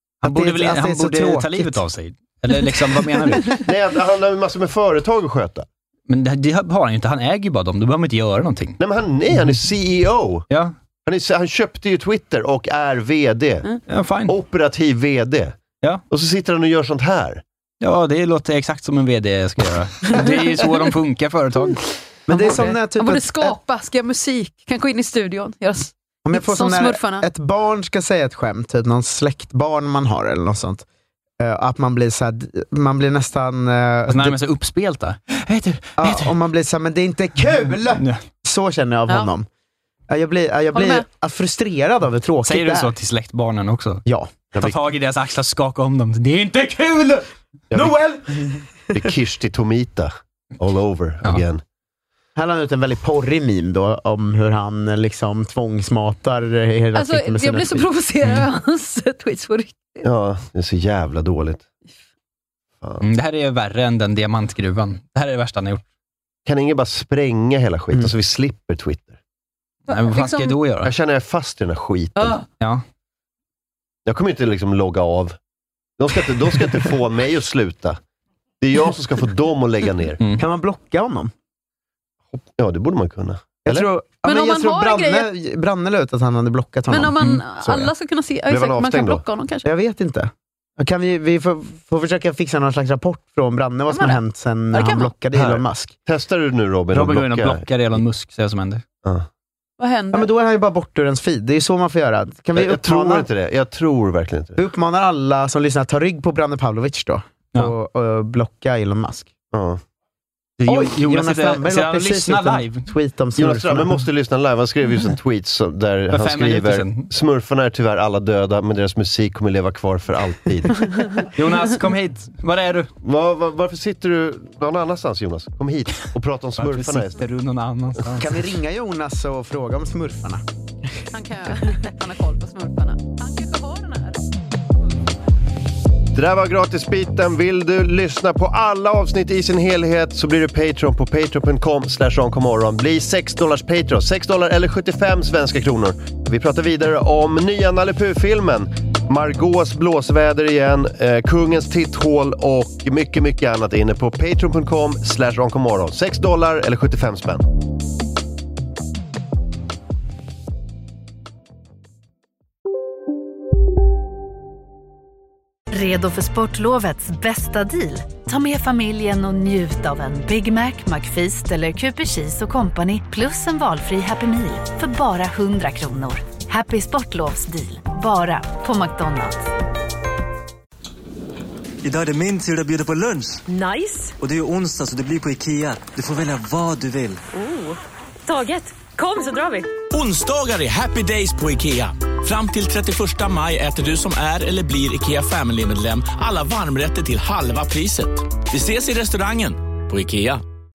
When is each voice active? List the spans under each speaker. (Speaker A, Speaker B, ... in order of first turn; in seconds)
Speaker A: 0.2-1.8, 22.3-23.6, 26.2-30.9, 31.4-34.4, 36.0-39.5, 40.1-42.9, 44.1-44.4, 52.4-57.9, 80.4-81.3, 83.7-87.2, 89.7-95.9, 100.1-103.3, 104.6-109.3, 110.7-114.0, 128.2-130.4
Speaker B: 0.2-3.6, 6.1-8.8, 13.9-14.3, 17.8-21.8, 34.1-36.4, 38.0-38.2, 42.5-44.0, 44.6-47.3, 63.0-65.8, 69.9-70.9, 87.2-87.5, 96.9-98.8, 110.6-112.9, 116.1-117.1, 121.3-122.9, 126.6-128.4
Speaker C: 3.5-5.7, 8.8-10.5, 11.1-13.7, 14.3-15.6, 16.1-17.4, 47.7-48.2, 48.9-51.6, 60.0-61.6, 66.5-69.2, 70.8-72.4, 74.1-75.4, 76.0-78.0, 78.6-80.2, 82.3-83.9, 88.5-89.2, 95.3-97.6, 102.5-104.6, 109.5-109.8, 113.4-121.0, 123.0-127.2, 136.1-157.5
Speaker D: 22.3-27.3, 40.7-41.1, 56.9-60.0, 69.9-70.6, 72.2-72.5, 84.2-85.3, 86.9-89.7, 93.9-94.2, 94.7-95.1, 99.8-100.3, 120.8-121.2, 131.1-134.2
Speaker E: 165.7-179.5
Speaker F: 181.8-183.4, 184.2-187.2
Speaker G: 183.5-184.2, 187.3-189.8
Speaker H: 189.9-200.4